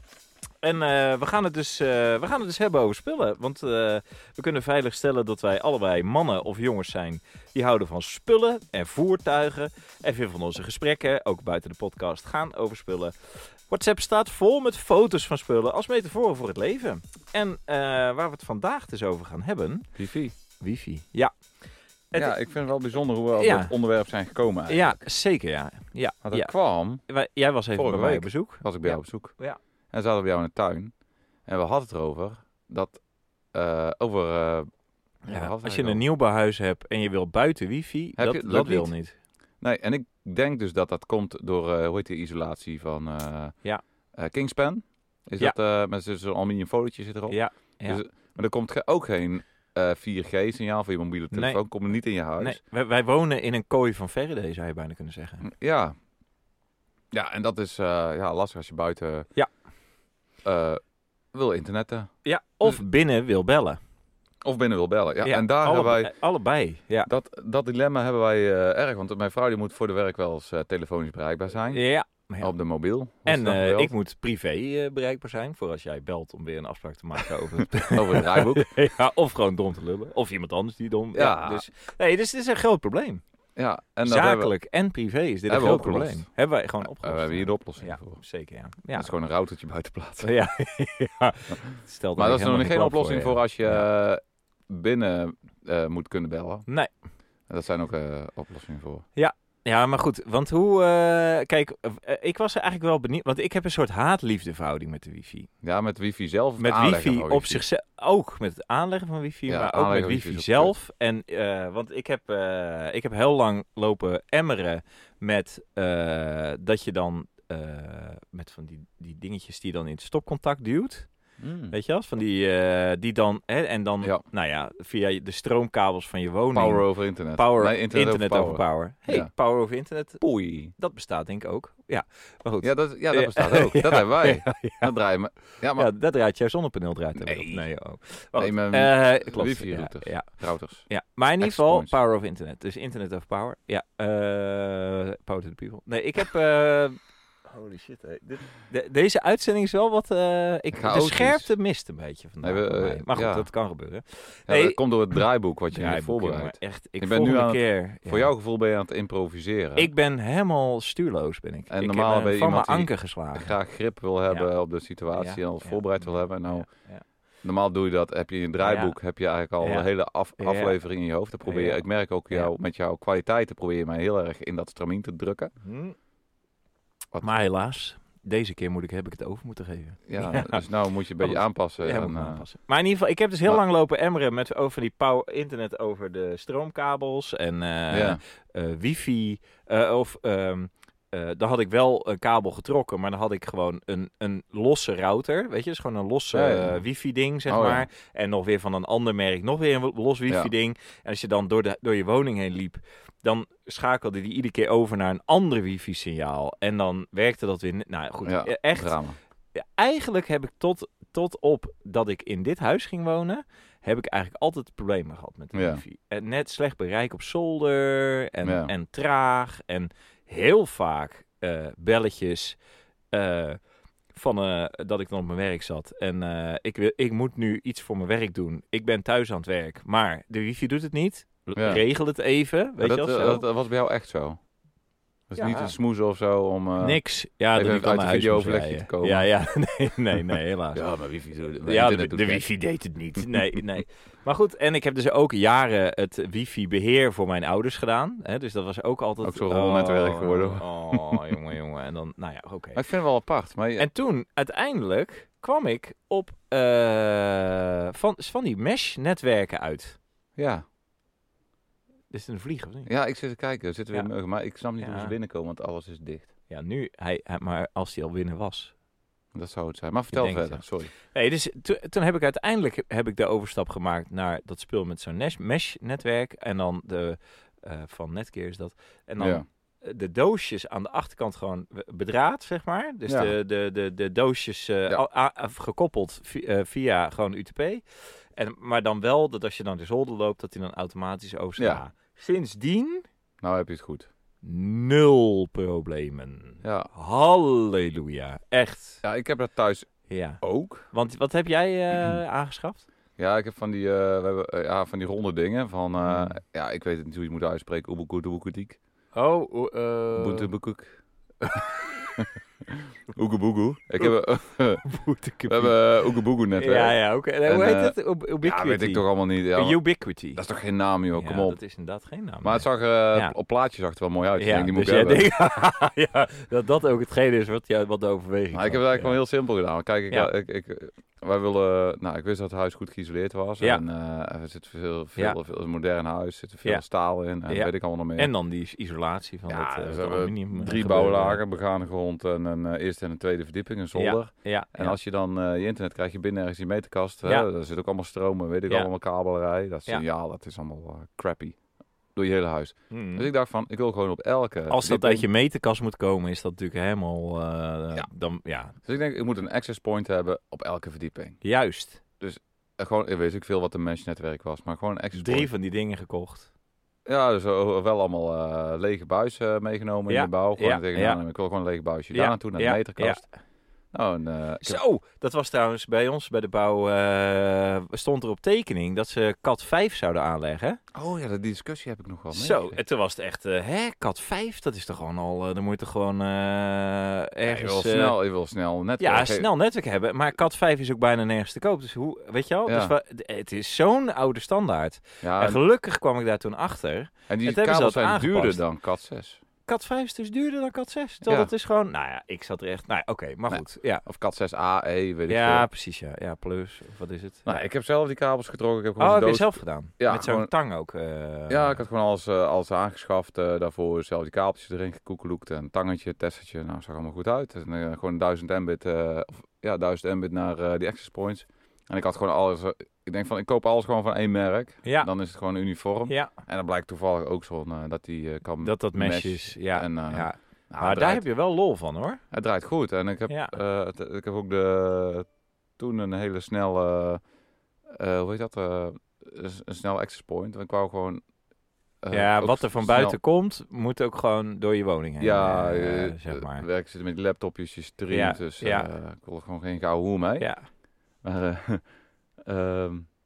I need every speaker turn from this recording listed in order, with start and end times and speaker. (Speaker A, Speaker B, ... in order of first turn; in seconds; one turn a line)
Speaker A: 0.6-19.9
Speaker B: 19.9-20.4
Speaker A: 20.6-21.3
Speaker A: 22.1-22.4
Speaker B: 22.1-25.0
Speaker A: 23.4-23.7
Speaker A: 24.7-29.6
Speaker B: 26.2-27.0
Speaker B: 27.8-29.4
Speaker B: 29.9-30.9
Speaker B: 31.5-33.0
Speaker B: 33.5-34.7
Speaker A: 35.2-39.2
Speaker B: 35.3-36.0
Speaker B: 38.2-38.9
Speaker B: 39.6-43.6
Speaker B: 44.2-52.6
Speaker A: 47.3-48.0
Speaker A: 51.3-51.6
Speaker A: 52.4-55.5
Speaker B: 55.4-56.0
Speaker B: 57.1-59.3
Speaker B: 60.4-60.8
Speaker B: 61.3-62.1
Speaker A: 62.2-63.8
Speaker B: 64.4-66.1
Speaker A: 65.2-67.1
Speaker B: 67.1-71.8
Speaker A: 71.7-72.5
Speaker B: 72.4-73.9
Speaker A: 73.3-83.2
Speaker B: 77.7-78.7
Speaker B: 81.1-81.7
Speaker B: 83.6-84.5
Speaker A: 84.0-89.1
Speaker B: 85.5-86.2
Speaker B: 86.8-88.2
Speaker B: 89.0-90.3
Speaker A: 90.2-93.8
Speaker B: 92.2-96.7
Speaker B: 97.5-99.0
Speaker A: 99.2-105.5
Speaker B: 105.6-107.6
Speaker A: 106.6-121.1
Speaker B: 109.5-110.7
Speaker B: 121.4-121.8
Speaker A: 121.7-130.2
Speaker B: 126.5-129.3
Speaker B: 130.2-130.7
Speaker A: 130.7-134.9
Speaker B: 132.6-135.9
Speaker A: 135.8-154.8
Speaker B: 137.2-137.7
Speaker B: 138.4-140.9
Speaker B: 141.4-141.9
Speaker B: 150.7-151.5
Speaker B: 152.4-153.5
Speaker B: 154.5-159.9
Speaker A: 155.7-158.3
Speaker A: 159.8-163.6
Speaker B: 161.7-166.7
Speaker A: 165.1-167.0
Speaker B: 167.4-175.5
Speaker A: 168.6-168.9
Speaker A: 169.6-169.9
Speaker A: 170.4-170.8
Speaker A: 171.4-172.5
Speaker A: 175.6-176.0
Speaker A: 177.2-180.6
Speaker B: 180.1-182.4
Speaker A: 181.2-209.0
Speaker B: 187.9-188.2
Speaker B: 196.3-196.8
Speaker B: 197.5-197.9
Speaker B: 208.2-209.2
Speaker A: 209.6-222.6
Speaker B: 215.5-215.8
Speaker B: 218.4-218.7
Speaker A: 223.1-223.6
Speaker A: 224.1-233.4
Speaker B: 231.6-231.8
Speaker B: 232.8-234.4
Speaker B: 235.3-237.0
Speaker A: 235.4-235.7
Speaker A: 236.8-240.8
Speaker B: 237.5-239.3
Speaker B: 240.7-242.4
Speaker A: 241.6-252.8
Speaker B: 243.2-243.6
Speaker B: 249.2-251.3
Speaker B: 252.8-253.9
Speaker A: 253.8-260.0
Speaker B: 260.4-260.6
Speaker A: 262.1-262.9
Speaker B: 262.9-266.3
Speaker A: 264.8-265.1
Speaker A: 266.5-268.7
Speaker B: 269.3-270.9
Speaker A: 270.1-287.8
Speaker B: 279.2-279.4
Speaker B: 283.1-283.3
Speaker A: 288.4-293.1
Speaker B: 293.4-294.1
Speaker A: 294.4-299.0
Speaker B: 296.6-296.9
Speaker B: 299.0-300.9
Speaker A: 300.1-302.9
Speaker B: 301.9-302.2
Speaker B: 303.2-308.8
Speaker A: 306.0-306.4
Speaker A: 309.1-310.5
Speaker B: 310.1-314.9
Speaker A: 311.4-311.9
Speaker A: 314.8-315.8
Speaker B: 315.5-319.8
Speaker A: 316.6-320.4
Speaker B: 320.4-321.6
Speaker A: 321.1-323.3
Speaker B: 322.4-325.2
Speaker A: 324.4-329.2
Speaker B: 328.5-338.3
Speaker A: 337.5-341.4
Speaker B: 339.5-351.6
Speaker A: 343.9-345.0
Speaker B: 352.1-355.3
Speaker A: 352.9-353.3
Speaker A: 354.7-358.8
Speaker B: 358.8-361.4
Speaker A: 361.4-362.0
Speaker B: 362.2-365.5
Speaker A: 365.1-366.5
Speaker B: 367.1-373.2
Speaker A: 370.1-371.2
Speaker A: 372.1-373.3
Speaker B: 373.9-374.8
Speaker A: 374.6-380.8
Speaker B: 380.9-382.8
Speaker A: 382.3-388.2
Speaker B: 387.4-389.5
Speaker A: 389.0-398.6
Speaker B: 392.7-392.9
Speaker B: 395.2-395.6
Speaker B: 397.3-399.4
Speaker A: 399.6-404.0
Speaker B: 401.3-401.5
Speaker B: 403.5-405.7
Speaker A: 405.3-407.5
Speaker B: 407.5-410.5
Speaker A: 409.0-411.8
Speaker B: 411.5-431.2
Speaker A: 424.9-425.1
Speaker A: 428.6-432.2
Speaker B: 432.3-435.3
Speaker A: 433.3-433.5
Speaker B: 435.8-437.2
Speaker B: 437.9-441.2
Speaker B: 442.0-443.2
Speaker A: 442.1-446.7
Speaker B: 445.2-450.5
Speaker A: 448.1-448.9
Speaker A: 450.4-450.7
Speaker B: 451.2-451.8
Speaker B: 452.4-453.1